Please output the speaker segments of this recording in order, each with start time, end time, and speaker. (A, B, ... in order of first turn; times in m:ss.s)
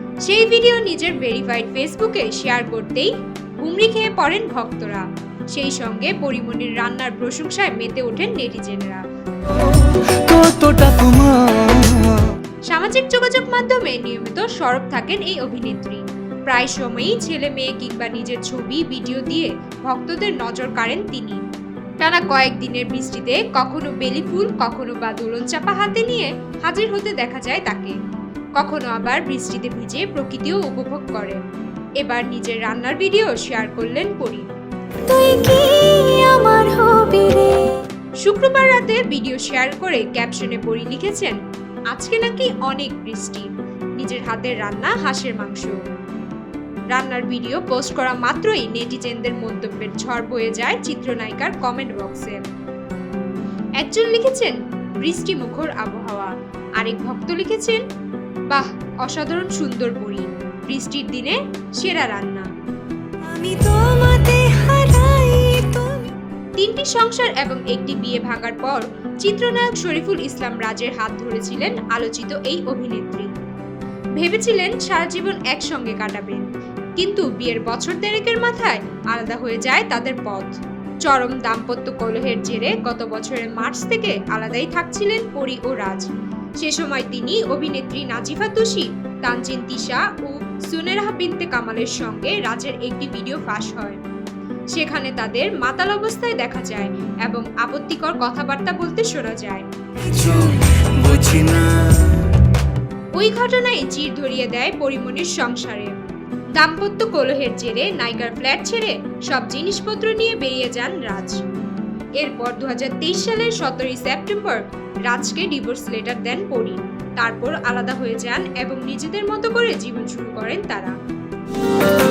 0:00.2-0:09.0 A
0:09.5-0:12.3 B
0:12.7-0:21.4 A
0:22.0-0:28.0 A
0:28.6-0:31.4 A
0:32.0-0:34.5 A
0:35.1-0:37.8 B
0:38.2-0:41.4 A
0:41.9-0:45.8 A
0:46.9-0:52.4 A
0:53.8-0:57.8 A
0:58.5-1:02.5 A
1:03.2-1:06.1 B
1:06.6-1:13.3 A
1:14.2-1:16.4 A
1:17.0-1:26.1 A
1:26.6-1:34.0 A
1:34.7-1:39.7 A
1:40.0-1:42.3 B
1:43.2-1:46.0 A
1:46.6-1:51.4 A
1:52.2-2:00.9 A